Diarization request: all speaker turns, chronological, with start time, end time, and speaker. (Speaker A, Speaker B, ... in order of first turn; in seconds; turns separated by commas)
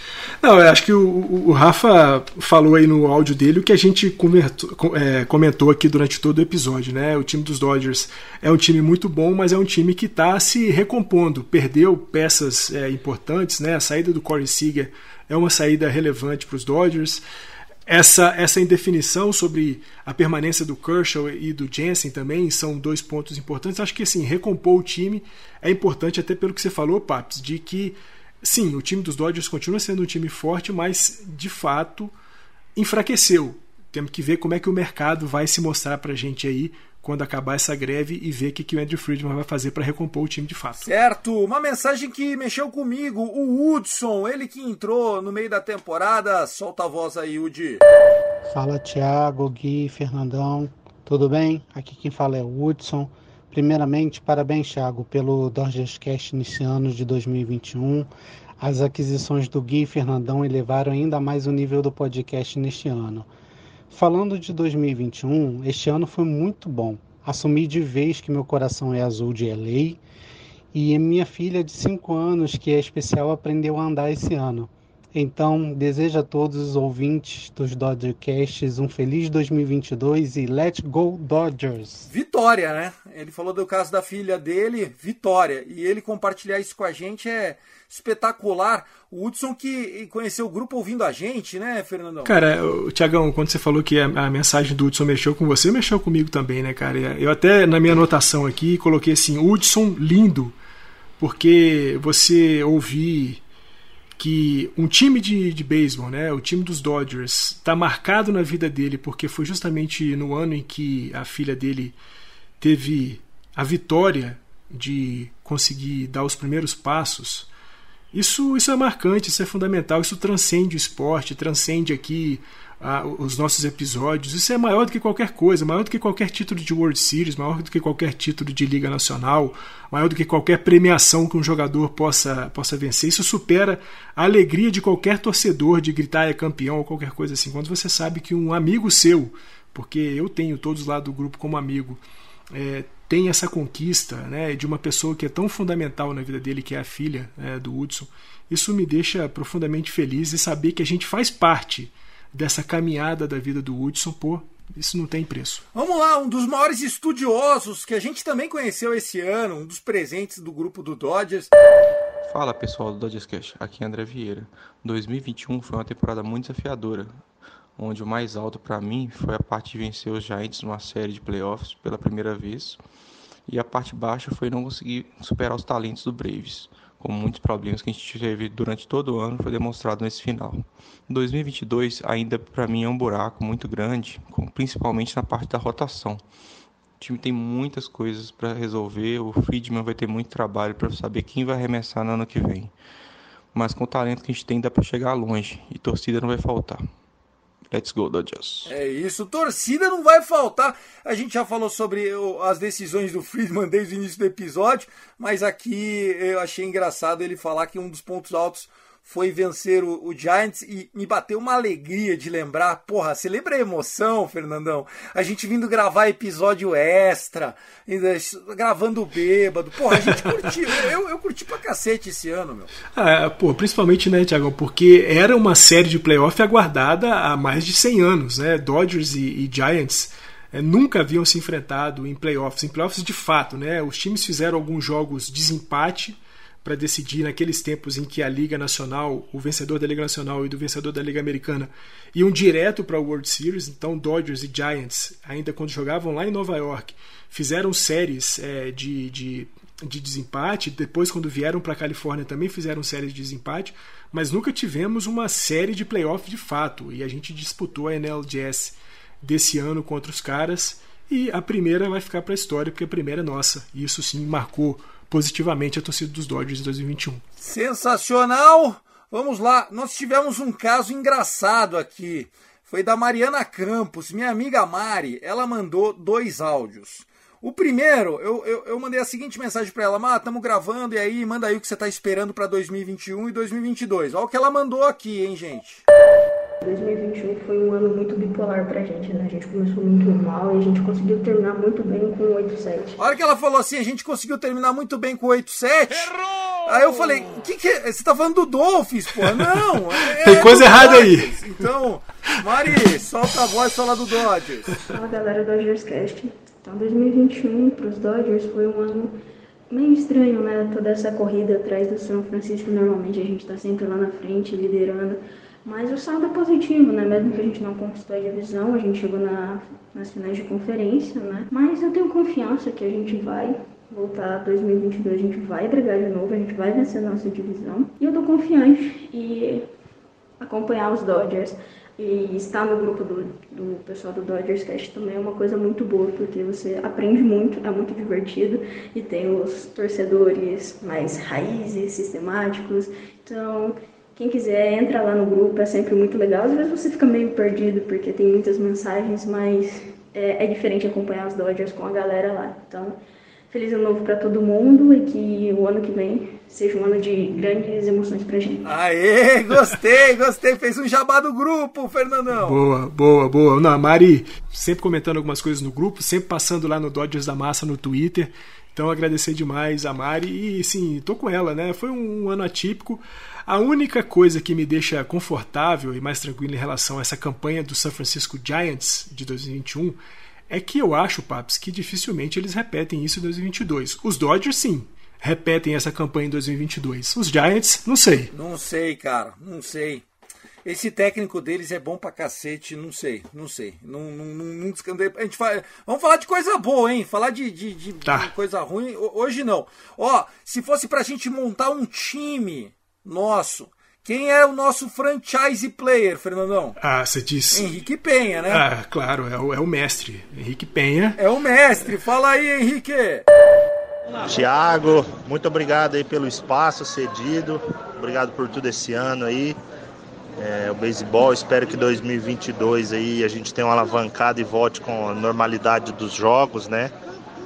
Speaker A: 0.4-17.2, Speaker A: 17.9-32.1, Speaker A: 32.8-40.9, Speaker B: 40.8-47.8, Speaker C: 48.5-58.1, Speaker C: 58.6-63.3, Speaker C: 63.9-70.0, Speaker C: 70.7-82.1, Speaker B: 82.0-92.3, Speaker A: 92.2-100.5, Speaker A: 101.2-103.4, Speaker A: 104.2-112.0, Speaker A: 112.6-117.5, Speaker A: 118.1-155.6, Speaker B: 155.7-161.5, Speaker D: 162.2-167.2, Speaker D: 167.8-172.8, Speaker D: 173.5-186.2, Speaker D: 187.0-192.7, Speaker D: 193.5-196.9, Speaker D: 197.7-198.7, Speaker B: 198.7-222.7, Speaker A: 220.1-220.3, Speaker A: 222.9-267.2, Speaker B: 267.4-285.8, Speaker E: 286.6-293.0, Speaker B: 293.0-304.8, Speaker A: 300.1-301.6, Speaker E: 304.9-309.1, Speaker E: 309.7-329.7, Speaker E: 330.4-353.0, Speaker E: 353.5-358.7, Speaker B: 358.6-362.6, Speaker A: 362.3-388.3, Speaker B: 388.3-390.0, Speaker B: 390.6-406.8, Speaker A: 398.0-398.3, Speaker A: 406.8-407.6, Speaker B: 407.5-408.6, Speaker A: 408.5-411.2, Speaker B: 411.2-413.2, Speaker F: 414.2-419.6, Speaker F: 420.4-426.9